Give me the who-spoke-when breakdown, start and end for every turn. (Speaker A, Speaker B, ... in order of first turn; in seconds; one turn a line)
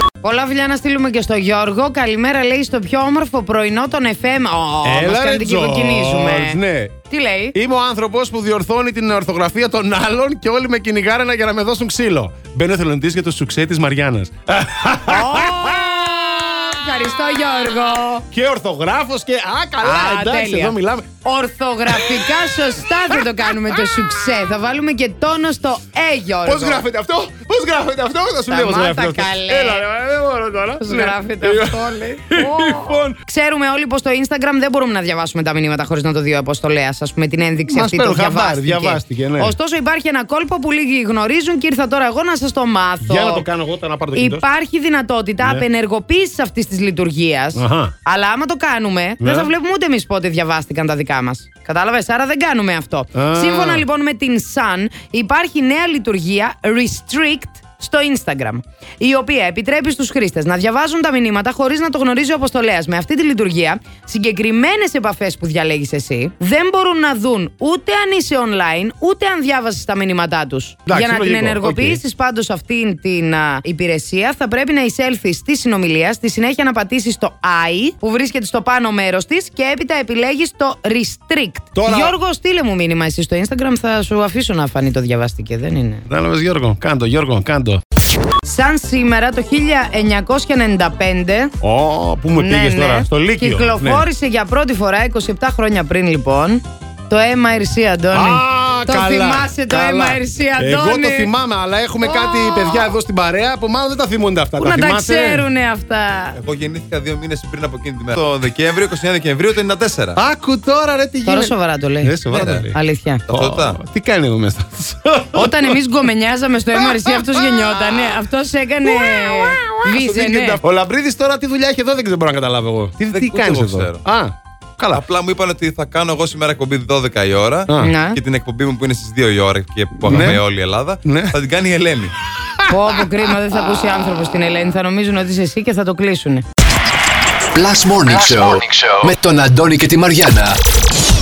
Speaker A: 0.2-7.5
Speaker B: 4.8-6.9
Speaker B: 7.5-16.3
Speaker A: 15.1-18.2
Speaker B: 18.2-21.1
Speaker A: 19.8-26.8
Speaker B: 21.9-23.8
Speaker B: 26.4-33.1
Speaker A: 28.5-29.8
Speaker A: 30.8-43.5
Speaker B: 37.7-39.5
Speaker B: 43.0-44.4
Speaker A: 44.1-86.0
Speaker B: 47.5-47.9
Speaker B: 49.2-49.5
Speaker B: 53.1-53.9
Speaker B: 70.9-72.0
Speaker B: 81.7-82.1
Speaker B: 86.1-87.8
Speaker A: 88.4-91.5
Speaker B: 91.6-94.1
Speaker A: 92.3-101.3
Speaker B: 98.1-105.5
Speaker A: 102.0-103.0
Speaker A: 104.6-106.4
Speaker C: 106.3-110.2
Speaker B: 110.1-112.8
Speaker A: 111.2-112.2
Speaker C: 112.3-112.7
Speaker A: 112.7-113.2
Speaker C: 113.3-113.8
Speaker B: 113.3-115.8
Speaker A: 115.3-120.6
Speaker B: 116.7-118.2
Speaker B: 118.8-125.0
Speaker C: 123.0-124.0
Speaker C: 124.9-132.1
Speaker B: 127.7-127.9
Speaker A: 127.8-128.2
Speaker B: 130.0-130.4
Speaker B: 131.0-131.3
Speaker B: 132.6-133.1
Speaker A: 132.7-136.4
Speaker D: 137.5-140.6